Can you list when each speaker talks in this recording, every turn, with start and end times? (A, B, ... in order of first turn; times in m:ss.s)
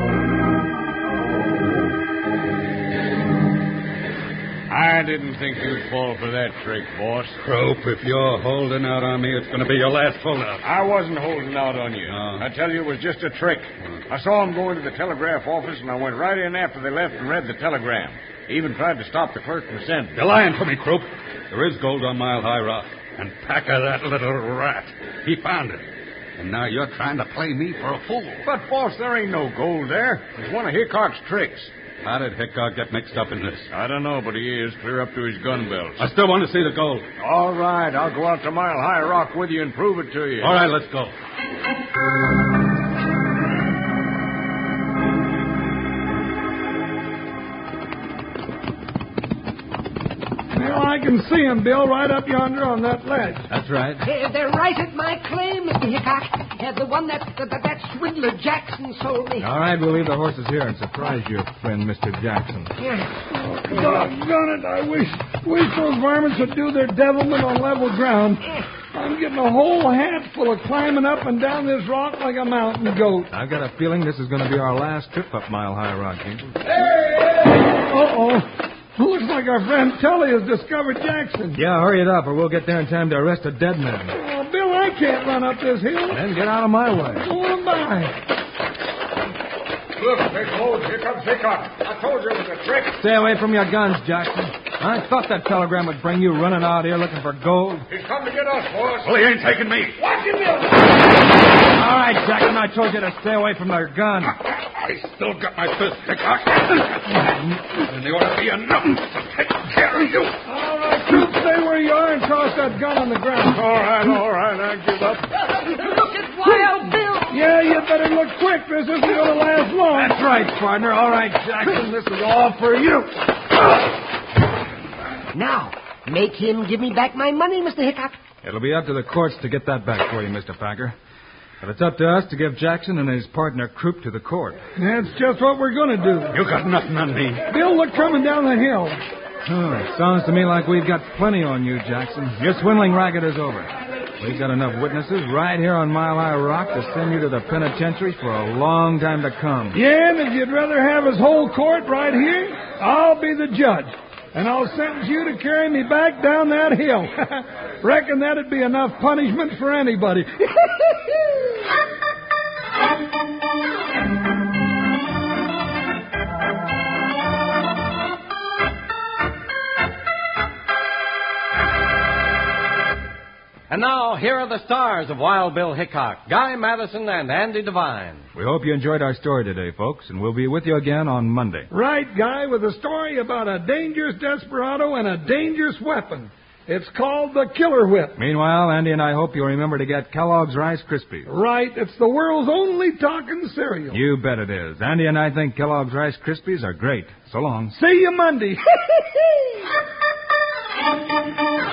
0:04.7-0:07.4 A
0:07.4-0:10.6 B
0:10.6-0:20.2 A
0:12.1-0:12.5 B
0:20.2-0:25.8 B
0:26.4-0:28.4 B
0:28.4-0:31.7 A
0:32.0-0:33.7 B
0:33.7-0:36.1 A
0:36.0-0:37.1 B
0:37.2-0:40.7 A
0:40.4-0:41.1 B
0:50.5-0:53.5 C
0:53.5-0:54.1 D
0:54.0-0:59.5 E
0:59.4-1:02.8 D
1:02.8-1:03.1 E
1:03.3-1:13.3 C
1:13.3-1:16.5 D
1:17.6-1:21.6 C
1:21.6-1:24.2 D
1:24.1-1:26.2 C
1:26.1-1:27.3 D
1:27.2-1:28.2 C
1:30.0-1:33.0 A
1:32.9-1:37.9 D
1:37.9-1:39.2 A
1:39.0-1:40.0 B
1:40.0-1:40.8 A
1:41.7-1:44.4 D
1:44.8-1:50.4 B
1:50.4-1:53.6 C
1:53.5-1:55.3 A
1:55.6-1:57.4 E
1:57.3-2:00.2 C
1:59.9-2:03.2 D
2:05.3-2:08.2 E
2:08.4-2:11.0 D
2:11.6-2:14.6 D
2:14.8-2:16.4 C
2:16.3-2:17.4 B
2:17.4-2:19.0 C
2:19.4-2:29.8 D
2:29.7-2:40.8 C
2:53.7-2:58.3 F
2:58.4-3:01.7 D
3:01.7-3:08.2 C
3:08.2-3:11.3 D
3:11.3-3:14.0 C
3:13.9-3:17.8 D
3:17.7-3:19.0 C